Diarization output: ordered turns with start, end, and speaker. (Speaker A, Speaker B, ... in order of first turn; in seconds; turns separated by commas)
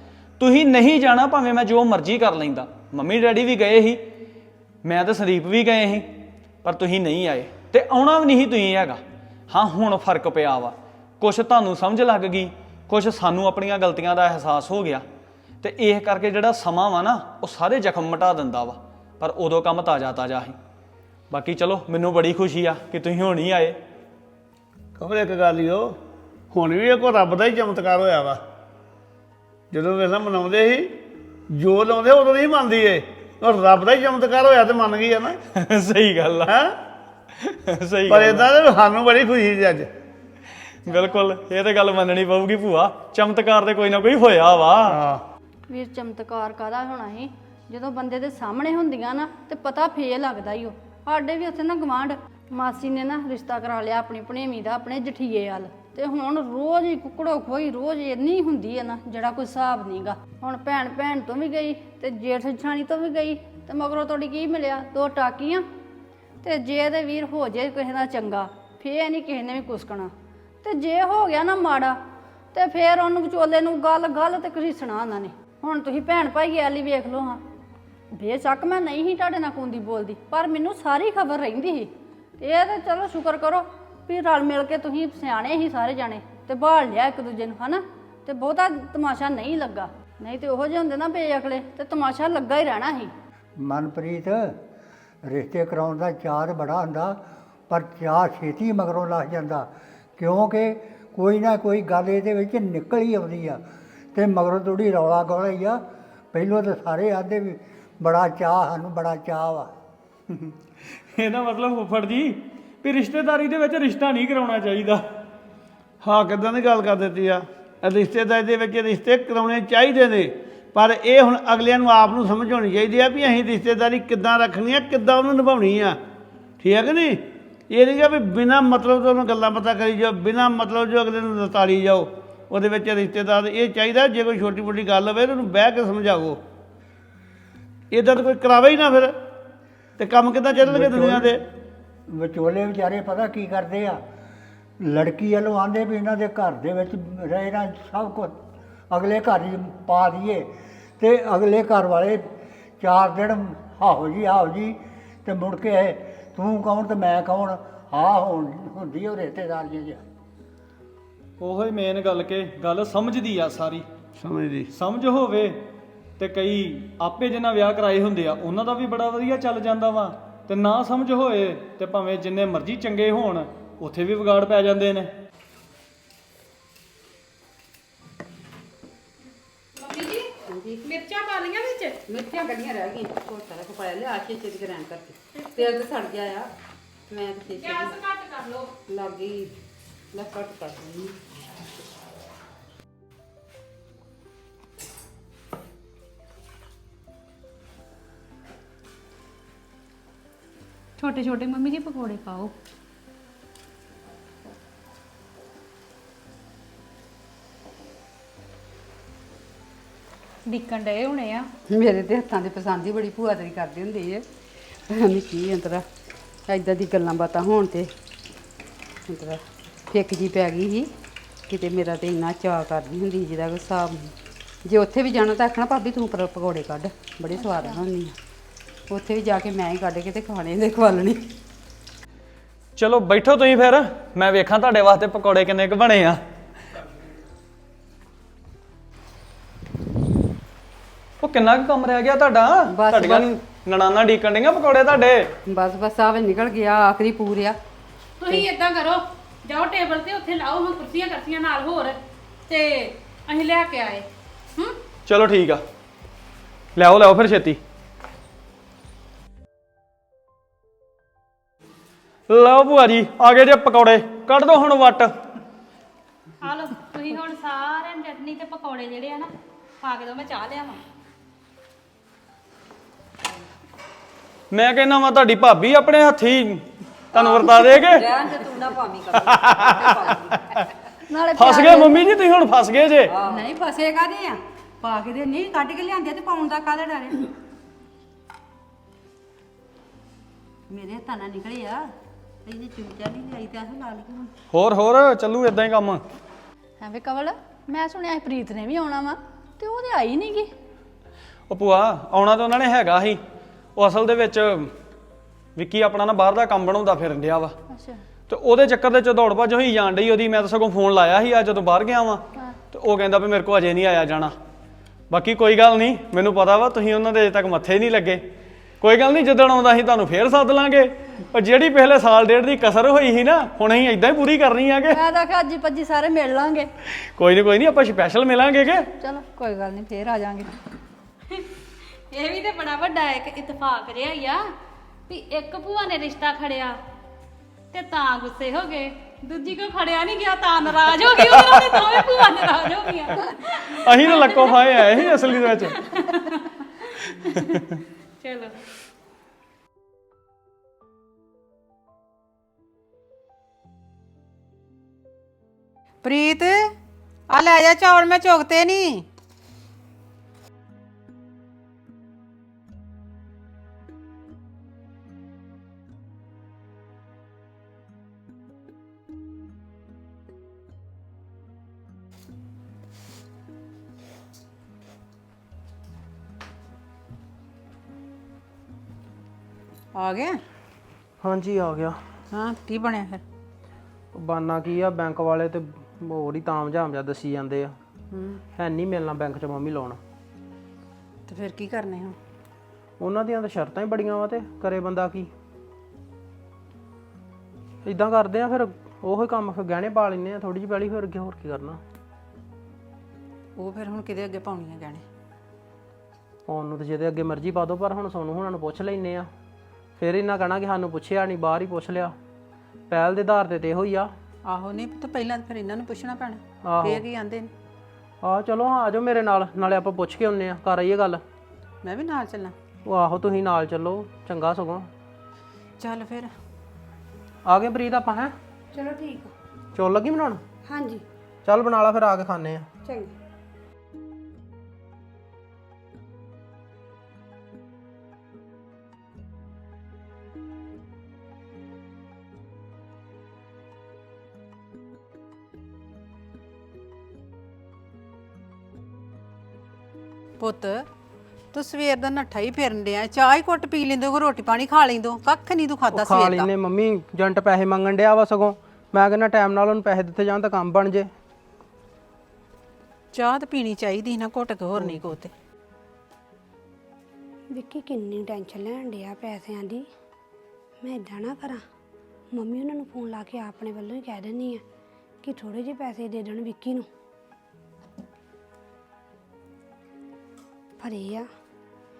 Speaker A: 0.4-4.0, Speaker A: 4.8-6.1, Speaker A: 6.6-15.0, Speaker A: 15.6-20.5, Speaker A: 21.3-23.8, Speaker B: 25.0-25.9, Speaker B: 26.5-28.4, Speaker B: 29.7-30.9, Speaker B: 31.5-35.4, Speaker A: 35.5-36.5, Speaker B: 36.5-36.8, Speaker A: 37.4-38.5, Speaker B: 38.1-39.9, Speaker A: 40.8-45.0, Speaker B: 44.9-45.2, Speaker C: 45.7-65.6, Speaker C: 66.4-70.1, Speaker C: 70.6-72.0, Speaker C: 72.5-77.4, Speaker C: 78.1-93.1, Speaker D: 93.6-94.6, Speaker D: 95.2-103.6, Speaker D: 104.1-109.7, Speaker A: 111.1-115.0, Speaker B: 116.0-126.0, Speaker B: 126.6-136.4, Speaker B: 137.9-139.1, Speaker B: 140.0-141.4, Speaker D: 140.6-141.3, Speaker D: 142.1-144.0, Speaker D: 144.8-148.4, Speaker D: 148.9-160.0, Speaker A: 161.4-163.8, Speaker B: 164.2-164.7, Speaker A: 164.7-165.6, Speaker A: 166.2-175.1, Speaker E: 179.8-180.3, Speaker F: 180.4-180.8, Speaker E: 180.8-182.0, Speaker F: 182.1-186.5, Speaker E: 185.3-185.6, Speaker F: 187.1-187.9, Speaker E: 187.6-188.7, Speaker F: 188.9-189.5, Speaker F: 190.1-191.2, Speaker E: 201.0-202.5, Speaker E: 210.5-211.5, Speaker F: 211.7-214.2, Speaker F: 214.9-215.8, Speaker F: 216.5-217.9, Speaker F: 219.1-220.9, Speaker F: 221.5-224.1, Speaker F: 224.6-228.1, Speaker F: 228.9-231.2, Speaker A: 232.8-236.2, Speaker A: 241.2-245.3, Speaker F: 242.7-243.3, Speaker F: 245.5-247.6, Speaker E: 248.2-254.8, Speaker A: 255.1-255.6, Speaker A: 256.7-257.6, Speaker A: 262.3-265.1, Speaker E: 266.4-270.8, Speaker A: 274.5-278.1, Speaker G: 277.2-280.4, Speaker A: 279.2-279.9, Speaker C: 281.1-282.1, Speaker A: 281.3-283.1, Speaker G: 283.1-283.5, Speaker F: 283.3-287.2, Speaker F: 290.7-291.8, Speaker F: 292.4-294.3, Speaker A: 294.5-296.0, Speaker C: 296.8-300.5, Speaker A: 301.5-303.2, Speaker A: 303.8-304.7, Speaker A: 305.6-307.6, Speaker C: 307.7-308.0, Speaker A: 308.3-314.3, Speaker A: 315.1-318.2, Speaker A: 318.8-325.0, Speaker C: 324.9-326.7, Speaker A: 327.1-328.9, Speaker C: 329.0-330.5, Speaker E: 332.1-334.5, Speaker E: 335.1-336.8, Speaker E: 337.7-347.6, Speaker A: 341.2-342.0, Speaker A: 343.8-345.8, Speaker E: 348.2-348.5, Speaker H: 356.0-356.7, Speaker H: 357.3-359.0, Speaker H: 379.9-380.4, Speaker I: 381.2-382.0, Speaker H: 382.3-383.2, Speaker I: 384.1-387.8, Speaker H: 388.1-388.4, Speaker I: 388.5-390.0, Speaker H: 391.3-392.1, Speaker I: 393.0-395.3, Speaker I: 397.8-401.8, Speaker H: 403.6-405.0, Speaker I: 406.5-409.3, Speaker I: 410.0-412.1, Speaker I: 412.9-414.1, Speaker H: 414.4-417.5, Speaker I: 416.6-417.0, Speaker I: 418.2-421.2, Speaker H: 421.8-422.5, Speaker I: 422.8-424.9, Speaker H: 425.8-426.3, Speaker I: 427.4-428.3, Speaker J: 428.7-429.3, Speaker I: 429.7-430.4, Speaker J: 430.6-431.0, Speaker I: 431.4-432.7, Speaker J: 432.8-433.1, Speaker H: 450.4-450.8, Speaker H: 451.5-456.5, Speaker I: 455.9-461.1, Speaker H: 463.1-465.3, Speaker I: 464.8-465.0, Speaker J: 467.5-469.9, Speaker J: 470.8-471.6, Speaker J: 472.3-474.6, Speaker J: 475.2-476.9, Speaker J: 480.8-481.3